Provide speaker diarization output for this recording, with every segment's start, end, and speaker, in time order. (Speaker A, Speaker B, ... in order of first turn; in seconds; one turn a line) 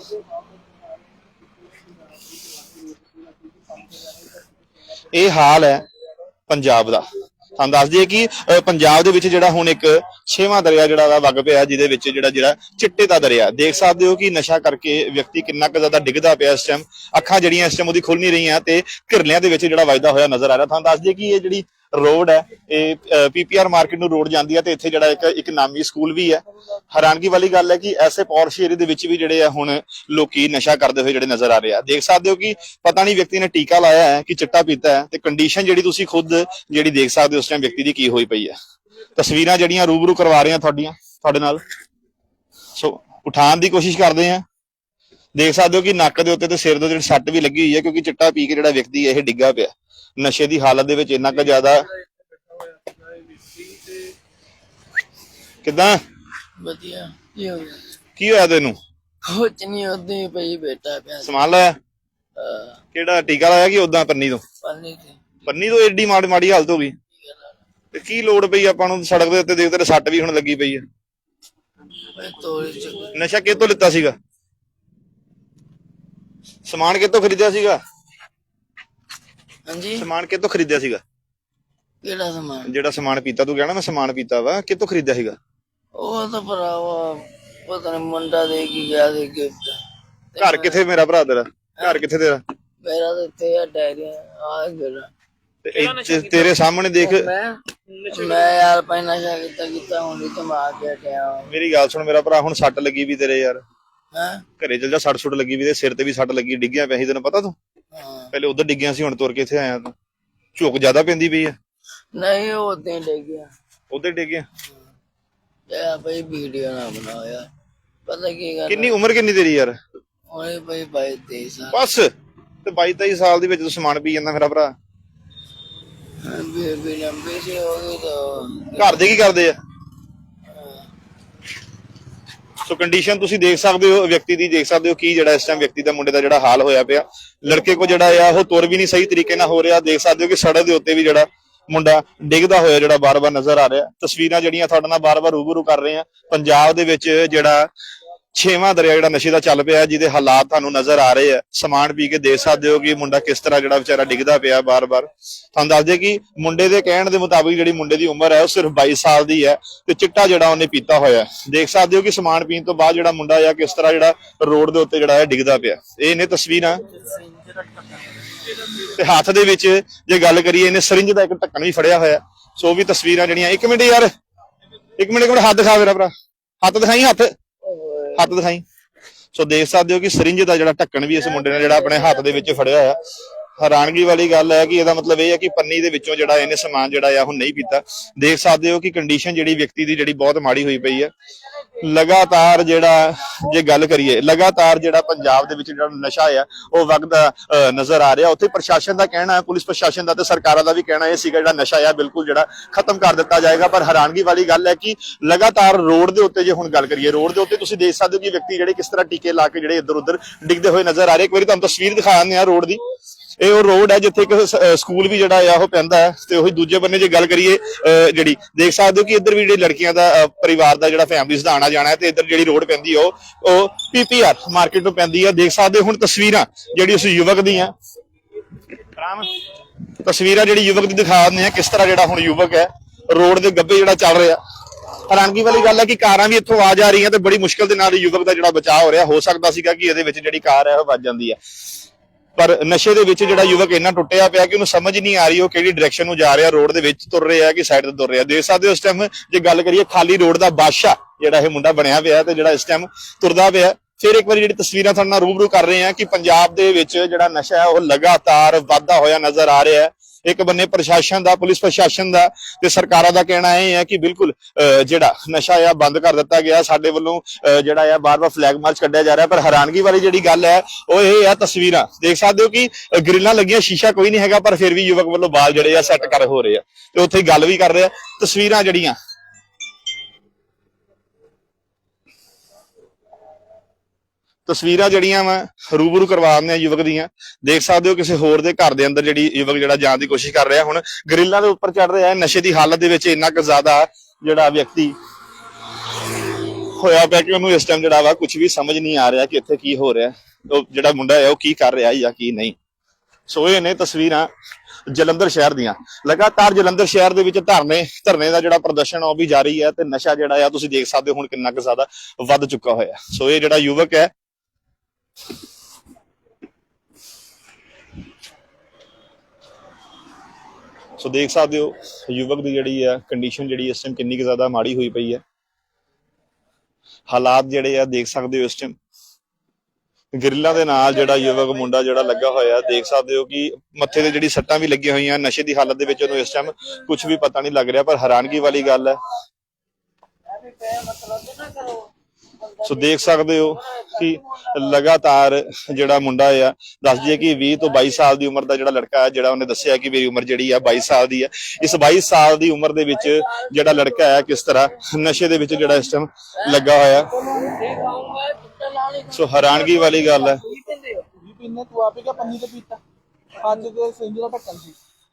Speaker A: 5.1-5.9
Speaker A: 6.5-38.5
Speaker A: 39.1-41.6
Speaker A: 42.8-44.4
Speaker A: 45.4-51.9
Speaker A: 55.6-56.0
Speaker B: 56.6-57.9
Speaker A: 58.2-58.8
Speaker B: 59.2-61.4
Speaker A: 61.2-61.8
Speaker B: 62.4-62.8
Speaker A: 62.9-64.4
Speaker B: 64.6-65.5
Speaker A: 65.5-66.9
Speaker B: 67.2-67.6
Speaker A: 67.9-70.8
Speaker B: 72.1-73.1
Speaker A: 73.1-74.2
Speaker A: 76.6-77.8
Speaker B: 79.7-80.0
Speaker A: 80.0-81.0
Speaker B: 82.0-82.7
Speaker A: 82.7-85.3
Speaker B: 86.0-89.8
Speaker B: 90.3-90.8
Speaker A: 90.4-92.4
Speaker B: 92.8-95.1
Speaker A: 95.6-97.3
Speaker B: 96.1-101.5
Speaker C: 97.9-98.1
Speaker A: 101.5-103.6
Speaker B: 104.1-104.4
Speaker A: 104.6-107.5
Speaker B: 107.9-108.3
Speaker A: 108.3-109.9
Speaker A: 110.5-111.5
Speaker B: 112.1-113.5
Speaker A: 113.9-114.4
Speaker B: 115.7-117.5
Speaker B: 118.0-119.0
Speaker A: 118.7-119.7
Speaker B: 120.3-121.8
Speaker A: 121.7-122.1
Speaker A: 122.6-124.7
Speaker B: 126.2-129.2
Speaker A: 128.8-129.6
Speaker B: 130.5-130.9
Speaker A: 132.7-147.7
Speaker A: 148.3-166.9
Speaker A: 168.8-174.1
Speaker A: 175.0-176.1
Speaker A: 176.6-177.3
Speaker B: 177.6-178.3
Speaker A: 178.2-178.6
Speaker A: 179.3-183.0
Speaker B: 181.2-182.8
Speaker A: 183.6-191.1
Speaker A: 191.8-212.8
Speaker A: 213.4-227.7
Speaker A: 229.0-229.3
Speaker A: 230.0-234.4
Speaker A: 235.1-241.4
Speaker A: 242.3-278.9
Speaker A: 284.4-294.9
Speaker A: 296.5-302.6
Speaker A: 303.3-304.3
Speaker A: 304.9-314.1
Speaker A: 321.0-325.2
Speaker A: 327.1-328.7
Speaker A: 330.1-339.0
Speaker B: 340.5-341.9
Speaker A: 342.6-357.1
Speaker B: 342.9-343.3
Speaker B: 352.9-354.6
Speaker B: 356.4-361.0
Speaker A: 359.1-360.4
Speaker C: 361.4-362.8
Speaker C: 363.6-364.7